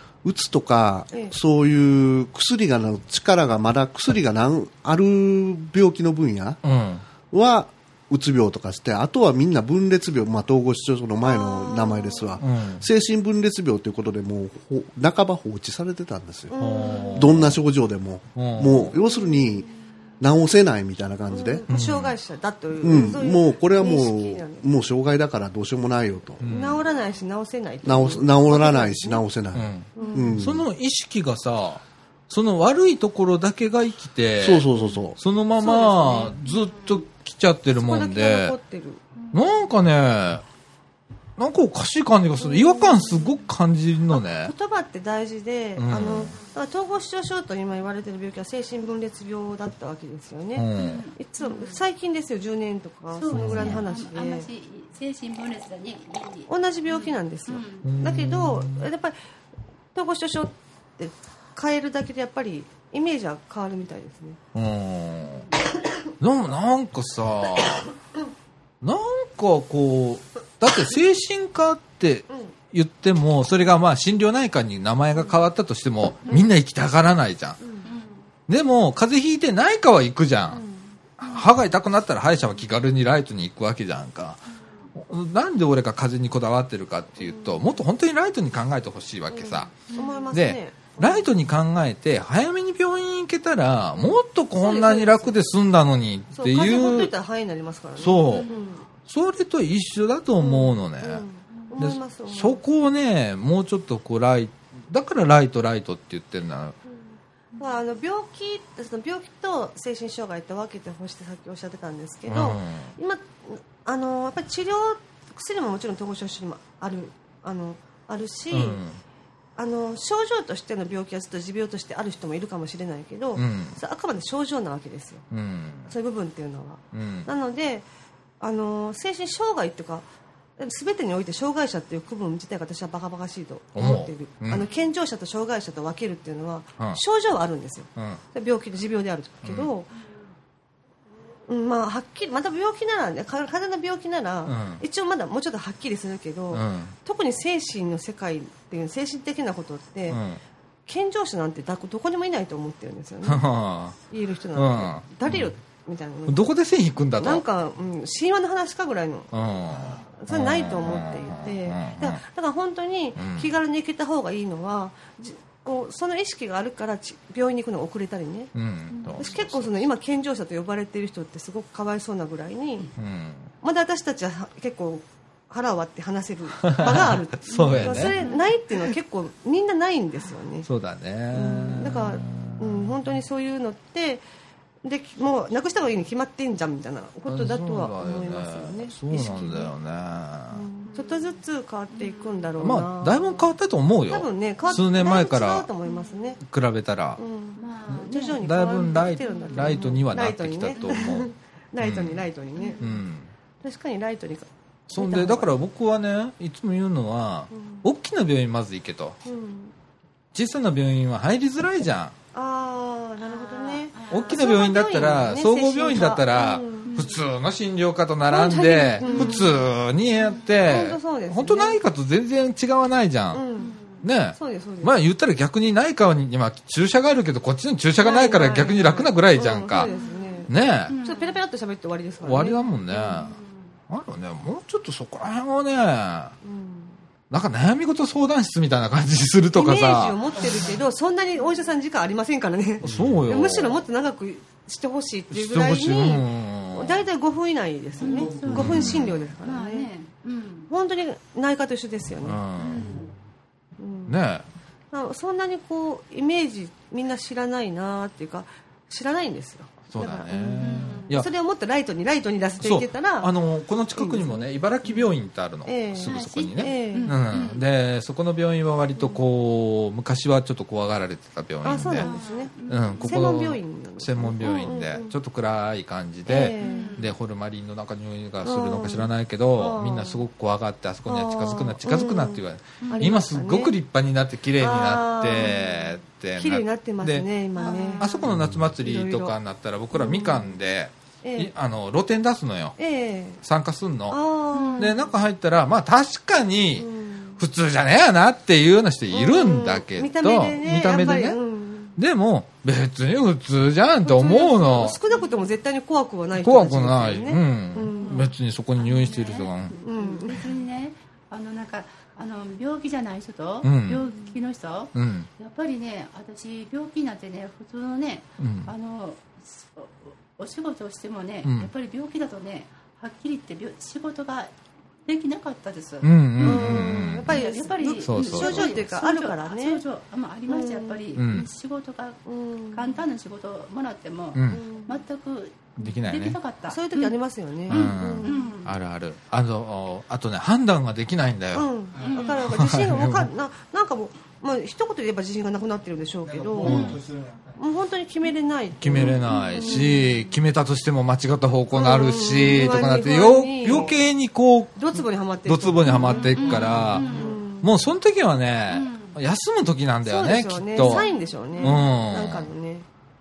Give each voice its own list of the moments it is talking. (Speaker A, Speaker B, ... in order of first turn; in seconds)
Speaker A: 0.2-6.6, 7.3-16.6, 17.1-19.7, 20.2-21.6, 22.8-26.4, 27.8-30.7, 34.4-35.2, 248.4-248.8
Speaker B: 6.6-7.0, 12.4-12.8, 16.6-17.6, 18.4-18.9, 21.7-22.1, 26.4-26.8, 29.5-34.7, 35.2-38.5, 39.3-40.4, 41.4-44.5, 45.8-46.3, 50.5-51.0, 53.3-53.8, 57.8-58.9, 64.5-65.5, 66.2-67.9, 68.8-77.6, 78.5-80.6, 81.2-84.4, 85.0-97.1, 98.0-98.5, 99.0-101.2, 101.8-106.8, 112.3-112.9, 118.5-119.0, 123.3-123.8, 125.3-125.9, 126.9-127.3, 133.8-134.7, 138.0-138.2, 139.4-139.7, 144.5-144.8, 146.5-147.0, 150.1-150.4, 153.2-154.0, 154.5-155.5, 156.3-157.4, 159.3-162.2, 163.2-163.5, 168.6-169.8, 173.0-173.5, 176.6-178.2, 180.7-182.9, 187.3-190.7, 192.6-195.7, 196.4-197.2, 198.4-202.2, 202.8-203.3, 204.9-209.2, 210.3-212.1, 214.1-223.4, 224.0-229.9, 230.5-230.9, 232.2-233.4, 233.9-236.3, 237.3-240.2, 242.8-243.8, 245.3-247.1, 248.5-249.2, 252.2-252.9, 254.1-254.4, 259.9-261.3, 262.6-272.1, 272.7-287.3, 288.0-292.8, 293.4-294.2, 294.8-301.4, 302.0-305.0, 306.4-309.8, 313.6-314.1, 314.9-315.3, 318.4-318.7, 321.4-321.7, 326.0-328.8, 331.1-331.5, 334.4-334.6, 335.8-336.4, 337.7-341.7, 342.4-343.3, 346.6-347.0, 348.8-361.1, 361.6-362.5
Speaker C: 11.2-12.4, 16.5-17.4, 19.0-19.6, 21.3-24.7, 26.4-29.2, 30.0-30.5, 35.6-36.4, 37.8-39.0, 42.4-43.4, 44.1-54.5, 56.5-59.2, 59.9-64.4, 77.6-77.9, 80.5-80.9, 87.2-87.7, 89.3-91.3, 94.0-95.4, 96.3-98.8, 100.4-102.6, 107.6-118.8, 119.6-125.2, 125.9-127.9, 128.4-130.1, 130.6-139.9, 141.5-150.2, 150.9-153.5, 154.1-156.5, 157.2-159.3, 160.2-168.5, 169.2-172.9, 173.6-180.7, 181.3-184.2, 184.8-189.7, 190.5-193.5, 194.1-196.4, 197.2-202.9, 203.6-205.6, 207.5-207.8, 209.2-209.7, 212.3-217.0, 218.3-219.7, 220.6-221.8, 223.3-223.7, 224.4-224.9, 228.0-233.2, 236.4-236.9, 239.5-249.9, 250.7-252.4, 253.8-254.2, 254.9-263.3, 264.0-265.1, 265.7-267.2, 269.0-269.2, 271.6-275.1, 276.3-277.0, 278.4-280.2, 281.1-283.8, 284.6-288.2, 288.8-289.4, 289.9-290.6, 291.2-291.5, 292.8-293.4, 294.1-295.0, 296.8-297.4, 299.1-302.0, 304.0-308.3, 309.8-310.5, 326.4-329.8, 330.5-331.1, 332.3-333.0, 334.5-335.0, 336.7-338.5, 341.5-346.9, 347.6-350.1, 351.7-354.0, 354.8-357.7, 360.1-362.9
Speaker D: 39.2-39.6, 50.8-51.8, 53.1-57.9, 77.9-78.2, 89.9-90.3, 98.3-98.7, 168.9-169.3, 177.5-178.5, 190.9-191.3, 191.9-192.5, 195.8-196.4, 197.6-199.9, 200.7-201.2, 202.6-203.0, 213.2-214.5, 216.8-217.2, 219.0-220.7, 223.6-224.1, 229.8-231.4, 233.0-233.7, 248.0-250.7, 252.6-253.1, 260.6-261.1, 266.1-267.6, 272.0-273.4, 276.6-277.1, 282.8-283.1, 287.6-288.3, 294.5-295.1, 305.1-305.5, 308.0-324.5, 325.1-332.2, 332.7-337.1, 337.7-338.7, 342.0-342.6, 346.6-347.0, 348.9-350.1, 355.8-357.4, 358.7-359.2, 360.8-361.9
Speaker E: 248.0-248.6, 341.9-342.3, 346.2-347.7, 355.9-357.3